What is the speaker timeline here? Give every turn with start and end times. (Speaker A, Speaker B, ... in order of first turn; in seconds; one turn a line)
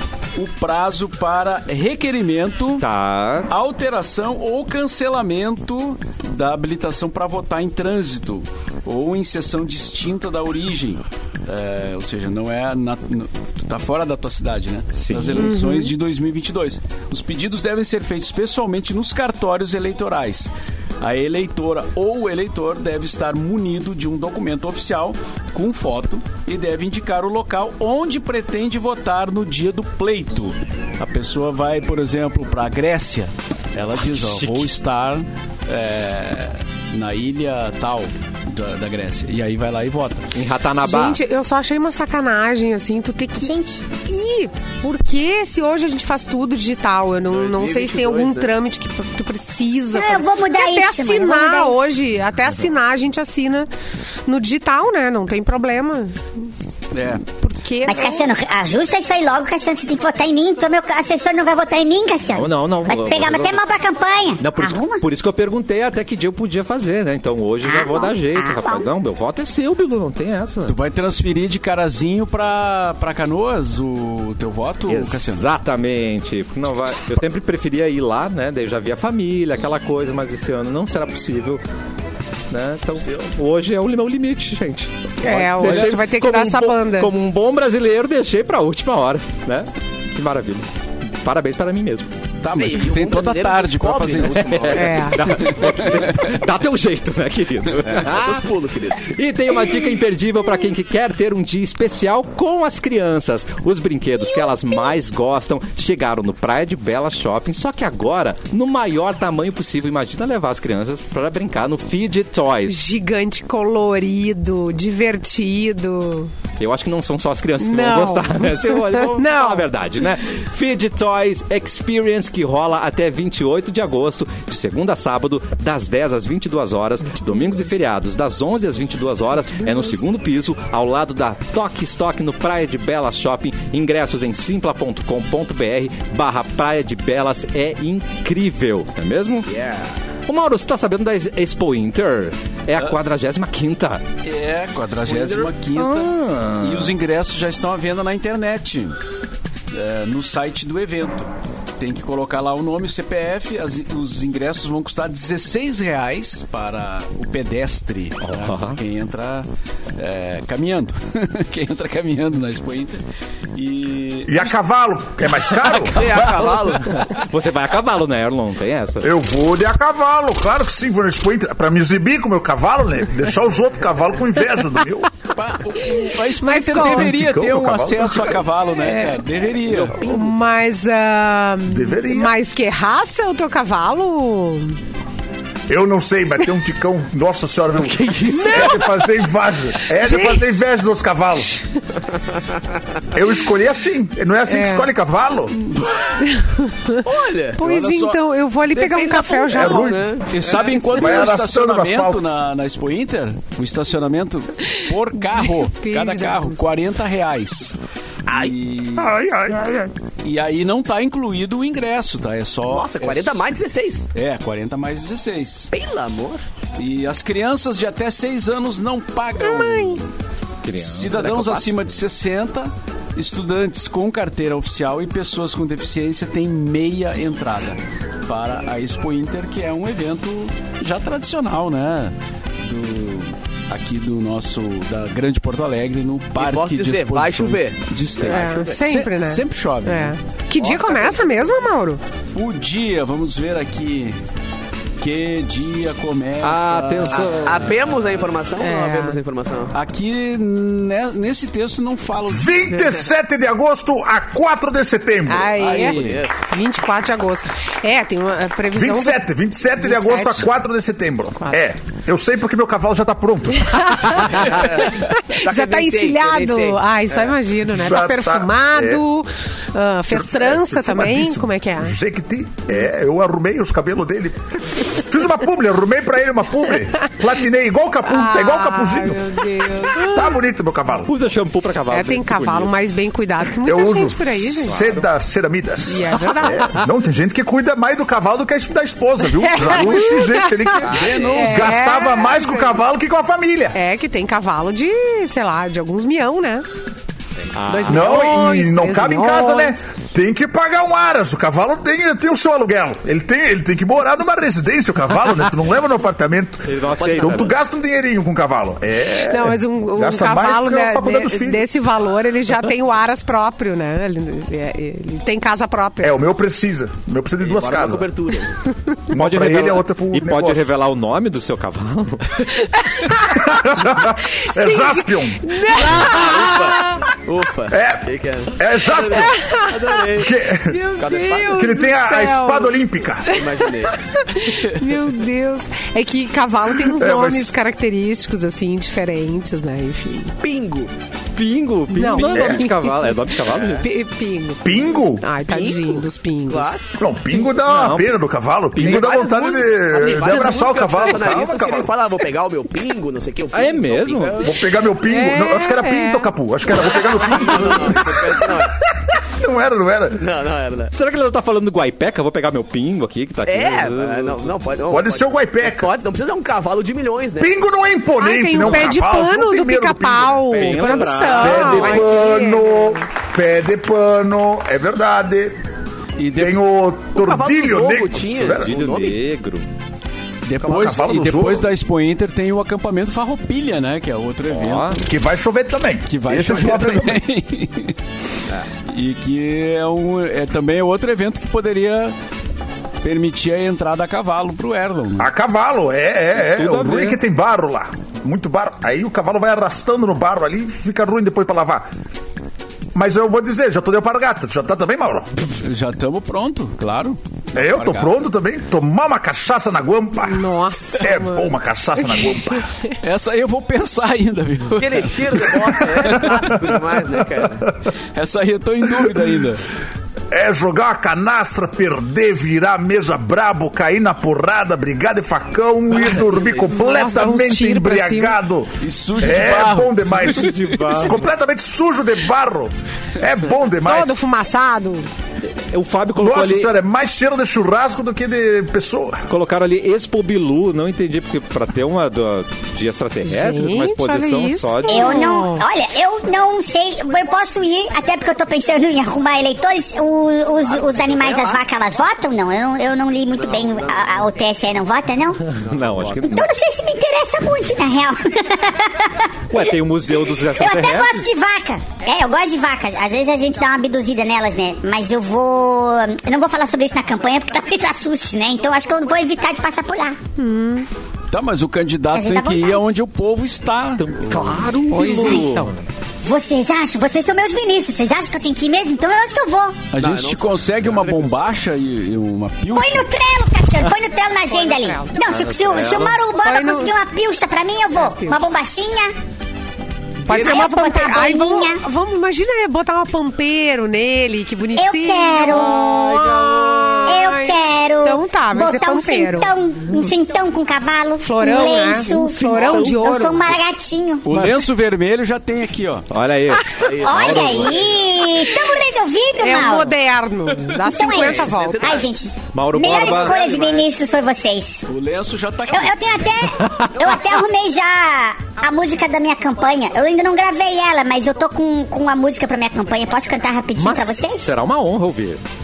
Speaker A: 0.3-2.8
Speaker B: 2.8-3.5
Speaker A: 3.5-40.3
Speaker B: 14.9-15.5
Speaker C: 15.4-15.9
Speaker B: 34.0-34.7
Speaker B: 40.3-41.2
Speaker C: 40.8-53.7
Speaker D: 43.4-43.8
Speaker E: 47.3-48.5
Speaker D: 49.9-51.9
Speaker C: 54.2-56.2
Speaker A: 56.9-57.2
Speaker C: 57.4-58.2
Speaker D: 57.9-65.0
Speaker B: 62.3-63.6
Speaker B: 64.4-70.7
Speaker D: 67.6-68.8
Speaker A: 70.7-75.5
Speaker B: 74.9-81.6
Speaker B: 82.5-92.1
Speaker C: 85.2-87.1
Speaker A: 92.4-94.8
Speaker E: 92.5-95.4
Speaker B: 94.4-98.5
Speaker C: 94.7-95.2
Speaker A: 95.3-96.2
Speaker E: 97.8-99.1
Speaker B: 99.0-112.8
Speaker C: 112.7-116.3
Speaker B: 116.6-139.5
Speaker C: 117.6-119.7
Speaker E: 139.5-139.9
Speaker B: 140.2-144.0
Speaker A: 144.2-149.0
Speaker E: 145.1-145.5
Speaker B: 145.7-146.9
Speaker A: 149.7-163.0
Speaker B: 158.2-158.8
Speaker A: 163.5-164.6
Speaker F: 164.3-166.0
Speaker B: 165.5-169.1
Speaker E: 165.9-166.9
Speaker F: 169.0-175.2
Speaker A: 175.3-180.0
Speaker C: 176.4-177.1
Speaker F: 176.8-178.4
Speaker C: 178.8-179.2
Speaker E: 179.6-180.3
Speaker C: 180.0-184.8
Speaker F: 181.7-182.3
Speaker F: 185.7-191.5
Speaker B: 187.7-188.8
Speaker C: 188.3-188.8
Speaker C: 190.0-190.6
Speaker F: 193.1-195.7
Speaker C: 194.5-194.9
Speaker C: 196.2-197.0
Speaker E: 197.0-197.6
Speaker C: 197.6-199.9
Speaker A: 197.6-198.2
Speaker E: 198.7-201.0
Speaker F: 199.5-200.2
Speaker A: 200.3-209.2
Speaker F: 200.9-202.2
Speaker C: 205.2-206.6
Speaker E: 208.3-209.9
Speaker A: 210.2-213.4
Speaker E: 212.7-214.1
Speaker A: 214.1-215.7
Speaker E: 215.7-216.4
Speaker A: 216.8-220.1
Speaker C: 219.4-220.0
Speaker B: 220.6-221.8
Speaker A: 220.7-240.2
Speaker E: 236.3-238.7
Speaker C: 238.2-242.0
Speaker E: 240.6-241.3
Speaker A: 242.3-244.2
Speaker A: 245.0-247.6
Speaker B: 246.4-247.8
Speaker E: 247.1-249.7
Speaker C: 248.6-249.2
Speaker A: 249.7-252.7
Speaker F: 252.2-255.6
Speaker C: 255.3-260.5
Speaker A: 255.6-256.2
Speaker E: 255.6-256.3
Speaker F: 258.7-264.3
Speaker C: 263.7-271.9
Speaker E: 264.5-267.4
Speaker F: 267.7-269.0
Speaker F: 270.1-281.1
Speaker C: 278.1-280.4
Speaker B: 281.0-282.8
Speaker C: 281.9-285.0
Speaker F: 283.6-293.8
Speaker B: 284.7-285.0
Speaker C: 285.9-286.7
Speaker B: 286.6-286.9
Speaker C: 289.3-292.8
Speaker A: 290.9-291.8
Speaker E: 290.9-291.3
Speaker C: 293.7-296.6
Speaker B: 297.5-298.3
Speaker C: 297.7-299.8
Speaker F: 297.9-311.7
Speaker B: 306.6-307.6
Speaker E: 307.0-307.5
Speaker C: 309.2-316.2
Speaker F: 316.0-318.1
Speaker E: 317.4-318.6
Speaker F: 319.1-320.6
Speaker B: 319.1-322.4
Speaker C: 322.7-327.0
Speaker F: 323.2-326.1
Speaker E: 325.8-329.3
Speaker F: 327.7-328.0
Speaker F: 328.5-329.4
Speaker C: 329.1-340.3
Speaker B: 329.7-330.3
Speaker F: 330.2-330.8
Speaker E: 331.0-331.6
Speaker F: 331.5-333.4
Speaker E: 333.3-334.0
Speaker F: 336.8-337.5
Speaker E: 340.4-340.9
Speaker B: 341.3-343.9
Speaker C: 341.9-346.8
Speaker F: 342.2-342.6
Speaker F: 344.6-345.3
Speaker E: 345.5-346.9
Speaker F: 346.9-351.9
Speaker B: 347.6-348.1
Speaker E: 348.8-354.6
Speaker B: 348.8-349.1
Speaker B: 353.5-354.5
Speaker F: 354.4-360.2
Speaker C: 355.0-356.3
Speaker E: 357.2-358.8
Speaker E: 360.1-360.9
Speaker B: 360.9-364.4
Speaker E: 363.4-367.6
Speaker F: 364.9-365.9
Speaker F: 367.4-375.6
Speaker C: 368.2-373.1
Speaker B: 370.5-372.2
Speaker A: 376.2-376.6
Speaker F: 376.3-378.7
Speaker E: 377.1-379.2
Speaker B: 378.5-379.7
Speaker A: 380.4-385.0
Speaker E: 380.6-381.0
Speaker F: 380.7-381.7
Speaker B: 384.5-385.0
Speaker F: 385.0-387.2
Speaker A: 386.1-388.0
Speaker A: 388.9-392.1
Speaker A: 393.0-395.3
Speaker F: 395.2-401.9
Speaker B: 396.4-397.2
Speaker F: 402.9-405.3
Speaker A: 405.6-408.2
Speaker F: 407.5-412.7
Speaker C: 410.2-411.6
Speaker C: 412.1-412.9
Speaker A: 413.0-416.7
Speaker E: 414.8-417.7
Speaker A: 418.1-419.6
Speaker F: 420.3-434.2
Speaker C: 426.7-428.4
Speaker A: 428.8-431.1
Speaker B: 430.2-431.2
Speaker C: 433.8-435.1
Speaker B: 435.4-436.7
Speaker F: 436.2-439.2
Speaker B: 439.3-445.2
Speaker C: 443.2-445.6
Speaker D: 444.9-455.5
Speaker E: 450.6-451.6
Speaker E: 453.3-454.3
Speaker B: 455.5-456.5
Speaker E: 455.6-456.2
Speaker D: 456.3-459.7
Speaker B: 459.5-461.3
Speaker D: 460.5-470.2
Speaker C: 470.4-470.9
Speaker A: 471.3-474.5
Speaker D: 472.1-472.9
Speaker B: 474.0-475.7
Speaker C: 474.9-475.7
Speaker D: 475.1-475.4
Speaker D: 476.2-479.8
Speaker A: 479.9-483.1
Speaker E: 479.9-481.3
Speaker D: 482.7-489.1
Speaker C: 484.6-485.1
Speaker B: 485.3-486.2
Speaker C: 486.4-486.9
Speaker C: 488.0-488.4
Speaker C: 490.2-499.5
Speaker E: 490.3-490.6
Speaker D: 490.3-491.8
Speaker D: 494.7-496.1
Speaker B: 495.5-497.1
Speaker D: 497.1-504.2
Speaker C: 501.2-503.5
Speaker A: 504.2-506.1
Speaker B: 504.3-504.6
Speaker B: 506.1-507.8
Speaker E: 506.8-507.7
Speaker D: 507.0-509.9
Speaker C: 509.4-512.0
Speaker D: 510.8-514.8
Speaker E: 511.1-512.1
Speaker B: 512.5-513.4
Speaker E: 512.9-513.9
Speaker A: 514.9-516.3
Speaker D: 515.7-524.5
Speaker B: 516.6-517.1
Speaker B: 523.8-525.4